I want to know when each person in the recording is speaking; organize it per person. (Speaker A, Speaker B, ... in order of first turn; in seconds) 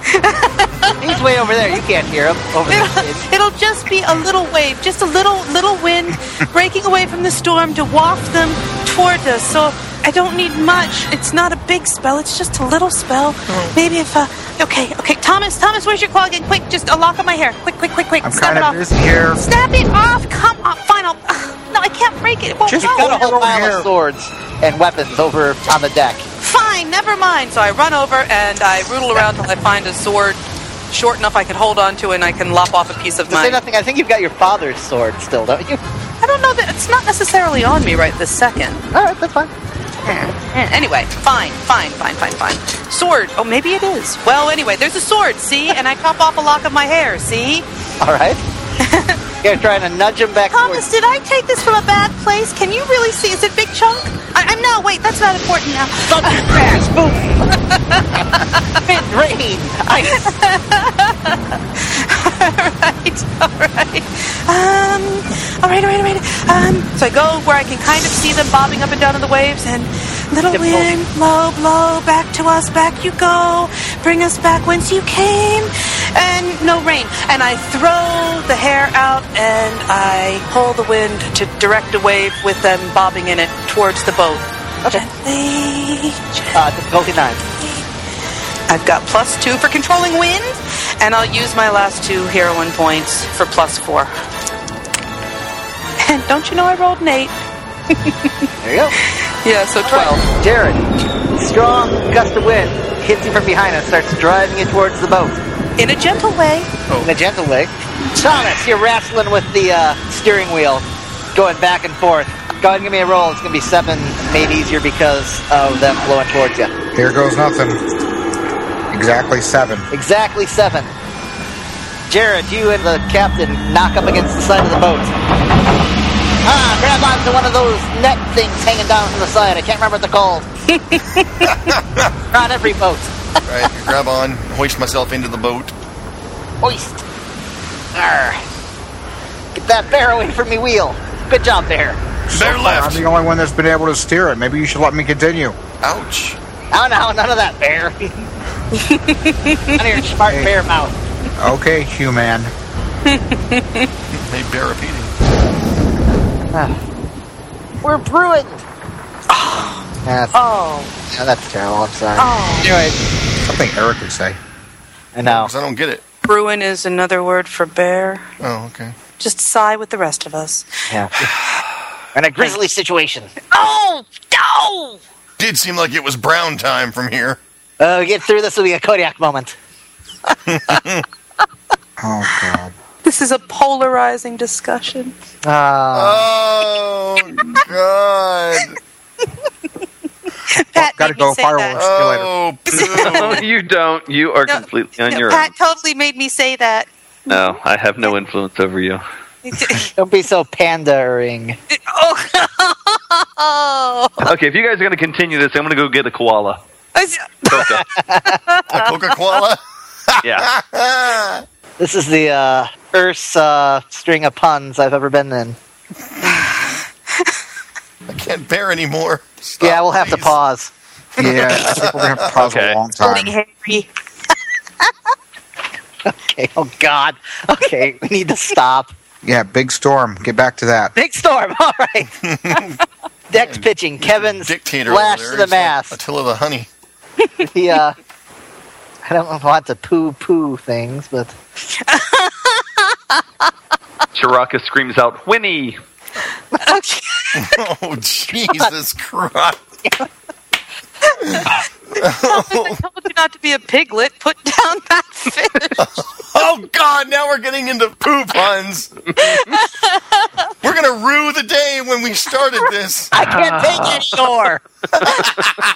Speaker A: 0.1-1.0, 2.7-18.8, 19.4-23.3, 26.4-33.6, 36.2-38.9, 40.1-47.7, 48.8-49.2, 50.5-56.8, 57.5-58.8, 60.1-86.5, 88.7-94.1, 96.0-97.4, 98.0-98.5, 99.0-100.2, 105.8-106.7, 130.7-131.5, 148.8-149.8, 153.1-153.9, 159.3-160.9, 162.2-162.7, 166.2-168.2, 169.2-170.7, 173.5-175.0, 183.0-185.1, 190.5-191.8, 192.7-193.4, 194.5-197.6, 199.4-199.9, 201.7-204.3, 206.9-207.6, 208.3-208.9, 223.0-223.9, 241.8-243.2, 246.6-247.5, 251.1-251.5, 252.2-255.8, 259.2-260.3
Speaker B: 1.0-3.3, 22.8-26.3, 33.3-35.8, 38.9-39.5, 48.0-48.4, 49.4-50.9, 56.0-57.4, 58.8-60.3, 70.5-70.9, 86.5-87.4, 98.6-99.0, 99.8-100.8, 101.4-105.4, 107.0-116.7, 119.9-120.9, 122.1-125.1, 126.4-130.5, 132.3-133.1, 136.6-137.0, 137.9-138.4, 139.5-142.0, 146.7-148.3, 149.8-150.9, 157.8-158.6, 160.1-160.3, 161.1-163.0, 165.2-165.5, 170.9-171.3, 172.1-173.5, 177.8-179.6, 185.4-186.3, 199.8-201.6, 207.6-208.4, 211.8-215.6, 219.6-220.7, 226.1-228.9, 230.9-232.1, 233.3-236.0, 237.4-238.0, 239.1-241.3, 263.1-264.6
Speaker C: 13.5-13.8, 106.9-107.2, 131.4-132.1, 133.5-135.7, 142.3-143.0, 145.8-146.4, 154.1-155.1, 165.2-166.0, 168.4-168.9, 175.4-177.4, 180.5-181.1, 185.9-188.8, 191.8-193.4, 208.7-211.4, 218.1-220.4, 221.2-222.3, 232.2-232.8, 233.4-236.7, 247.3-249.6, 252.0-252.8, 255.8-258.9, 260.6-263.1
Speaker D: 18.2-19.4, 22.7-23.9, 116.9-117.8, 118.9-119.9, 142.3-145.6, 150.3-150.5, 151.4-152.5, 163.4-164.4, 182.0-182.7, 190.8-192.3, 221.2-223.3, 229.2-230.9
Speaker E: 193.1-195.5, 197.3-199.0, 204.2-206.6, 207.4-207.8, 210.2-210.5, 222.4-222.8, 244.1-245.8, 263.2-264.2